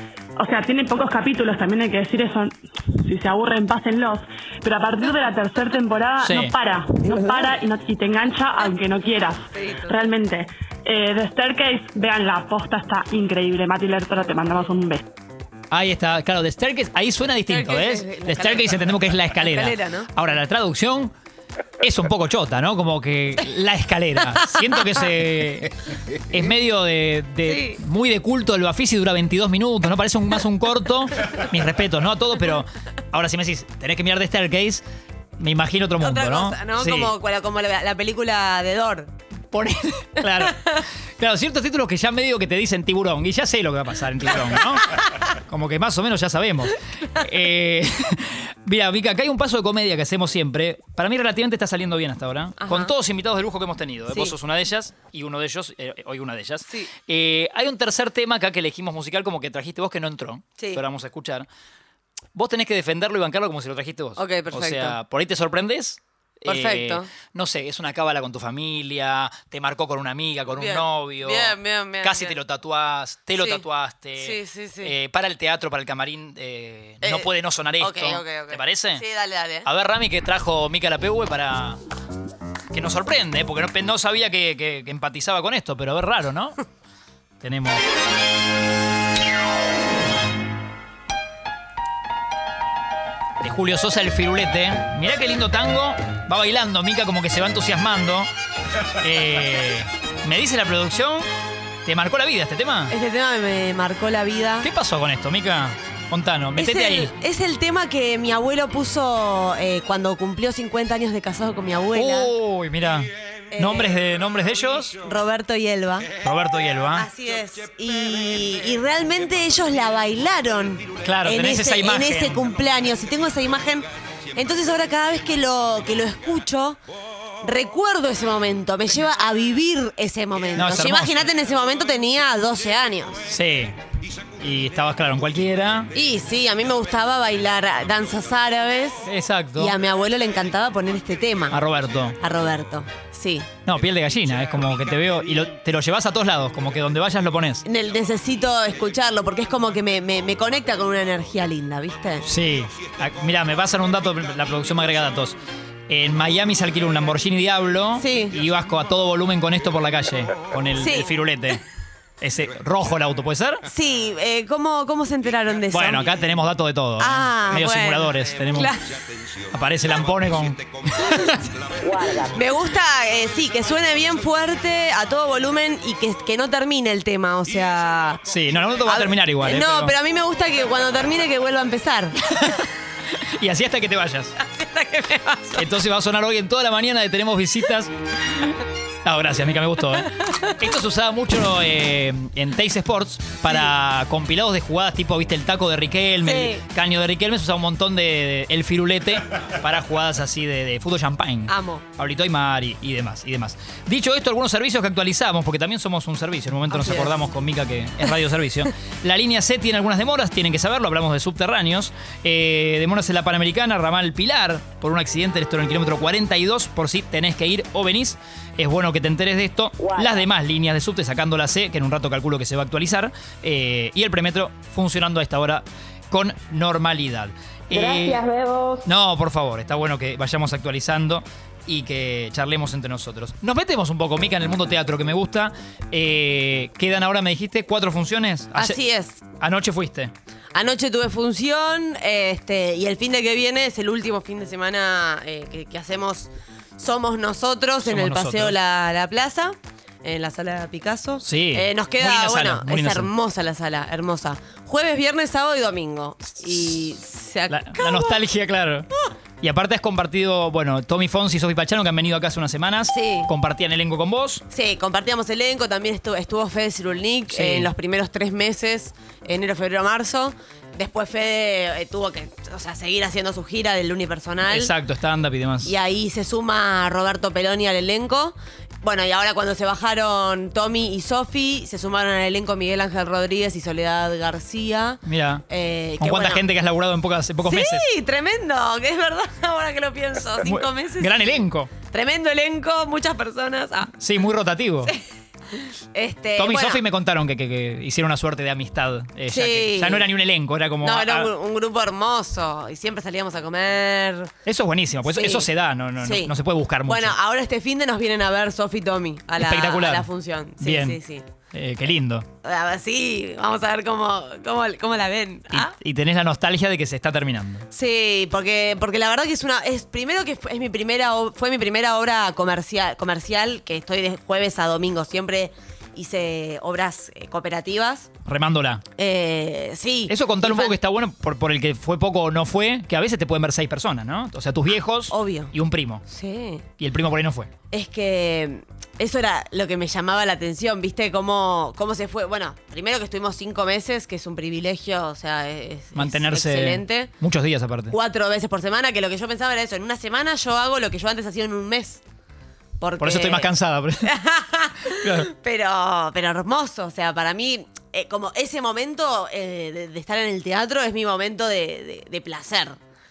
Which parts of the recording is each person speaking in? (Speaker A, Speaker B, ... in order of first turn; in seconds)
Speaker A: 0.4-15.0
Speaker B: 6.2-6.5, 15.7-21.1, 21.8-25.7, 26.3-34.8, 35.4-37.1, 39.5-61.5, 62.3-79.0, 79.6-81.8, 82.7-86.6, 87.4-87.8, 93.4-98.3, 99.0-101.3, 101.8-102.9, 104.6-107.1, 111.9-115.0, 116.2-117.1, 121.0-122.5, 130.6-131.3, 133.2-133.8, 134.4-135.9, 139.0-139.8, 141.5-142.2, 143.7-147.6, 152.2-155.4, 155.9-161.6, 162.2-163.6, 165.7-168.7, 169.5-171.3, 178.2-179.9, 183.2-184.3, 185.5-187.9, 189.0-228.2, 228.8-238.8, 239.4-240.1, 247.8-248.6, 251.2-253.1, 257.5-258.9, 259.4-264.4, 267.3-267.7, 274.4-275.7, 285.0-285.4, 286.0-287.9, 290.4-291.7, 294.0-294.9, 296.4-301.3, 304.4-307.1, 309.4-310.1, 310.6-311.0, 311.5-312.3, 315.5-317.6, 328.2-328.8, 330.1-336.0, 336.8-337.5, 345.9-347.9, 353.0-354.1, 355.0-355.3
Speaker C: 9.5-10.1, 17.5-20.1, 24.3-25.0, 27.4-27.8, 36.0-39.1, 40.4-40.8, 52.6-53.0, 54.1-54.4, 60.6-60.8, 64.2-65.0, 66.5-67.1, 70.5-72.4, 73.3-73.6, 74.2-74.9, 77.0-79.7, 102.9-104.7, 106.6-112.3, 113.5-114.0, 114.9-116.1, 116.9-126.8, 127.4-133.2, 135.9-141.6, 142.2-143.5, 147.6-152.2, 158.0-158.3, 160.8-161.1, 163.6-166.3, 167.0-168.9, 171.0-178.2, 178.8-182.4, 184.4-185.7, 190.1-190.6, 196.2-196.6, 201.5-201.8, 206.7-207.2, 238.5-239.2, 240.5-258.2, 262.9-263.3, 264.5-274.7, 275.6-286.4, 287.4-293.9, 295.5-296.8, 299.3-300.1, 300.8-304.3, 305.1-305.5, 306.0-306.3, 306.8-311.2, 312.4-315.7, 317.7-328.1, 328.9-330.8, 335.1-335.5, 336.0-336.6, 337.7-347.1, 347.9-352.0, 352.8-353.5, 354.0-362.8
Speaker D: 171.8-172.3, 219.8-220.2, 227.7-228.8